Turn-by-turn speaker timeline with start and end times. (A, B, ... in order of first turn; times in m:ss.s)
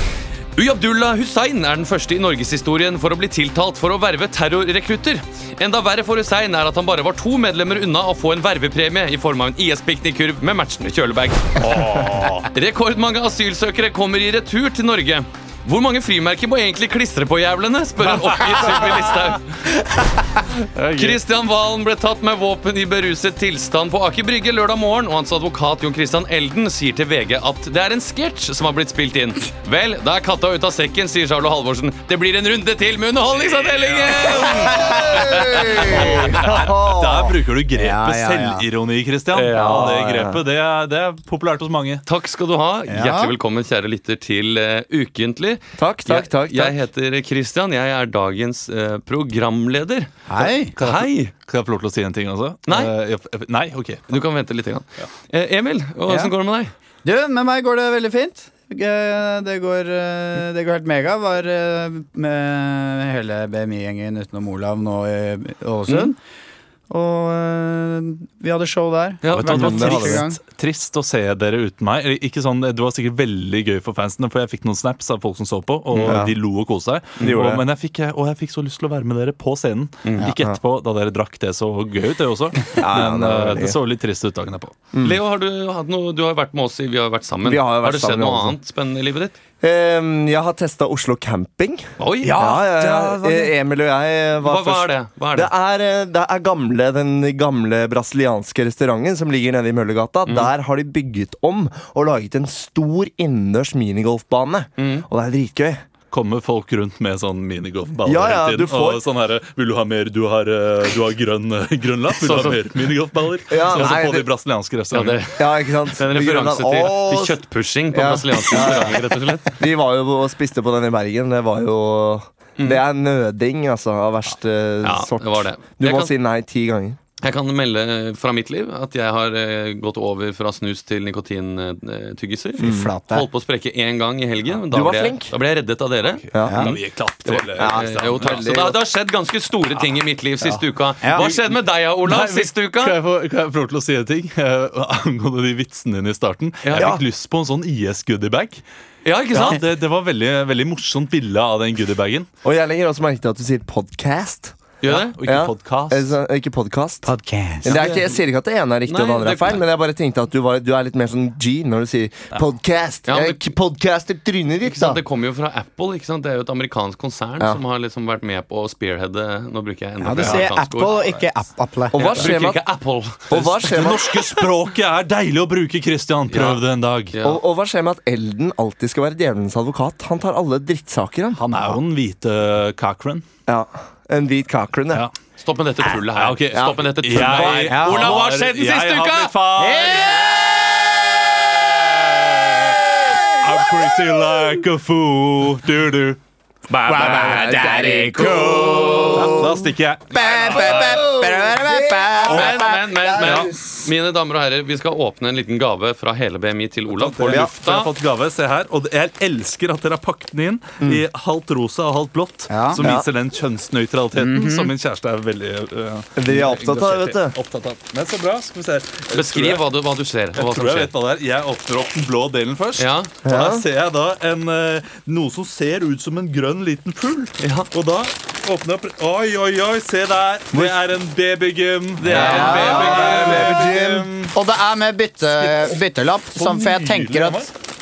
0:00.6-0:19.7 A
0:11.6-0:12.4 B
0:18.1-0:18.6 B
0:20.8-0:21.2 B
0:21.0-0:36.4 A
0:33.6-0:42.0 B
0:34.7-0:36.3 C
0:35.2-0:37.4 D
0:37.8-0:38.7 C
0:39.3-0:40.2 A
0:39.6-0:40.4 D
0:42.1-0:50.2 A
0:42.9-0:43.3 C
0:45.8-0:46.8 D
0:50.3-0:50.8 C
0:50.8-0:51.3 A
0:50.8-0:54.2 B
0:52.7-0:52.9 A
0:54.1-0:56.7 A
0:56.1-0:56.3 C
0:57.0-1:06.2 C
1:06.9-1:10.4 C
1:09.2-1:10.2 A
1:09.3-1:24.8 B
1:09.5-1:10.2 D
1:15.9-1:16.2 A
1:16.1-1:16.4 D
1:17.2-1:17.6 D
1:20.0-1:20.3 A
1:20.2-1:20.6 D
1:22.7-1:23.8 D
1:24.9-1:25.2 D
1:25.0-1:29.4 A
1:27.4-1:28.6 D
1:29.6-1:45.8 D
1:32.0-1:32.4 A
1:32.2-1:33.5 C
1:34.4-1:35.5 A
1:44.8-1:45.1 A
1:46.1-1:55.2 B
1:48.0-1:49.0 D
1:52.2-1:52.7 A
1:53.5-1:54.3 D
1:54.9-1:59.6 A
1:55.4-1:57.4 D
1:57.9-2:07.0 D
2:02.6-2:02.8 A
2:04.8-2:06.1 A
2:07.2-2:23.0 A
2:12.6-2:13.3 C
2:12.6-2:12.9 D
2:14.7-2:15.3 D
2:16.2-2:18.6 B
2:16.3-2:16.6 D
2:16.4-2:16.8 C
2:17.6-2:18.8 D
2:21.0-2:21.3 C
2:21.2-2:21.5 B
2:22.0-2:28.6 B
2:26.6-2:27.0 A
2:26.8-2:27.0 D
2:29.0-2:29.6 A
2:29.3-2:32.3 B
2:32.4-2:34.6 D
2:34.8-2:35.2 A
2:34.9-2:36.1 B
2:35.2-2:37.1 D
2:37.0-2:37.8 C
2:37.6-2:45.0 D
2:37.6-2:38.2 A
2:38.8-2:39.6 A
2:43.1-2:43.4 A
2:44.6-2:51.3 A
2:50.0-2:52.2 C
2:50.2-2:50.9 B
2:51.9-2:52.6 D
2:51.9-2:53.7 A
2:53.3-2:54.5 D
2:53.3-2:57.1 B
2:56.3-2:57.4 A
2:57.2-3:01.4 D
3:01.3-3:03.2 B
3:03.5-3:05.1 D
3:05.4-3:09.4 A
3:06.1-3:10.4 B
3:06.5-3:07.8 D
3:07.7-3:08.2 C
3:09.6-3:10.5 C
3:11.7-3:16.2 B
3:16.8-3:17.5 B
3:16.8-3:19.5 C
3:16.9-3:19.6 D
3:19.1-3:21.2 B
3:20.1-3:23.1 C
3:20.7-3:23.8 D
3:22.2-3:22.7 B
3:22.2-3:27.9 A
3:23.2-3:23.5 B
3:27.0-3:39.6 B
3:27.2-3:27.5 D
3:32.5-3:32.8 C
3:32.8-3:33.1 D
3:34.2-3:34.7 C
3:36.2-3:37.4 D
3:39.1-3:40.9 A
3:40.3-3:54.3 B
3:42.8-3:43.1 A
3:43.2-3:43.6 D
3:47.4-3:47.7 A
3:50.5-3:50.8 D
3:52.0-3:53.6 A
3:52.1-3:54.1 D
3:52.1-3:53.4 C
3:54.3-3:57.5 C
3:55.4-3:55.8 B
3:56.4-3:57.5 B